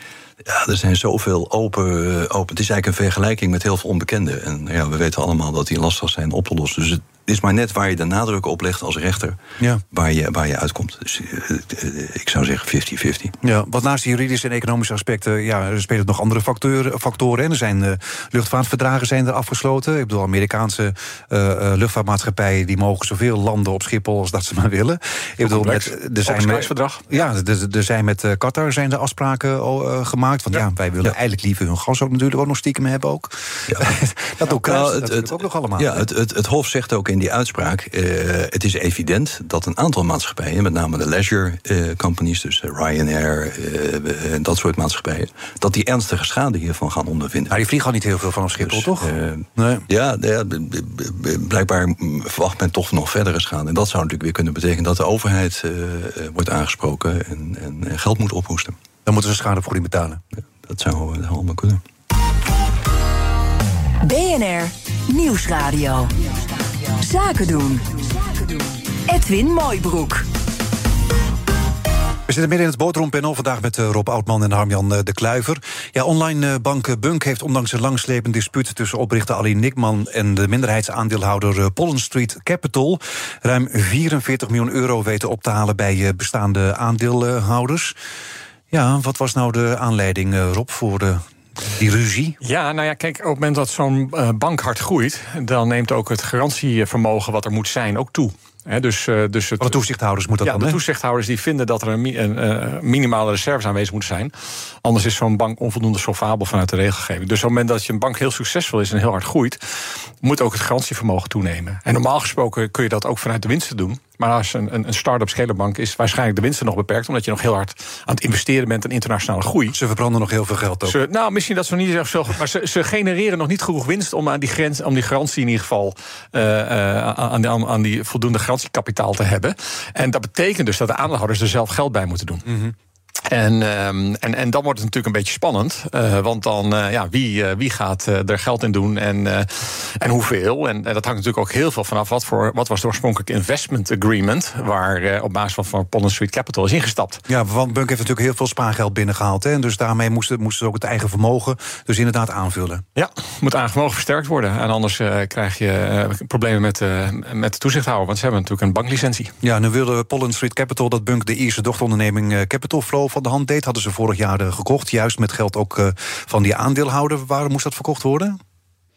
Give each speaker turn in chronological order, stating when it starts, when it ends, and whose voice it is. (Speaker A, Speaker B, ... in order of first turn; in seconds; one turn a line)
Speaker A: 0.4-9.4
Speaker A: 9.9-13.4
Speaker B: 13.4-36.1
Speaker C: 25.4-27.1
Speaker A: 34.5-47.6
Speaker B: 47.5-49.9
Speaker A: 48.6-58.8
Speaker B: 59.1-60.2
Speaker A: 60.6-61.8
Speaker D: 64.0-66.3
Speaker D: 67.0-70.3
Speaker B: 72.3-88.0
Speaker B: 88.7-92.4
Speaker C: 92.4-99.8
Speaker B: 99.6-100.8
Speaker C: 100.4-119.8
Speaker B: 119.7-121.0
Speaker C: 120.9-132.5
Speaker B: 132.5-132.7
Speaker C: 133.3-147.2
Speaker B: 147.3-152.8
Speaker C: 152.9-159.3
Speaker B: 159.4-168.4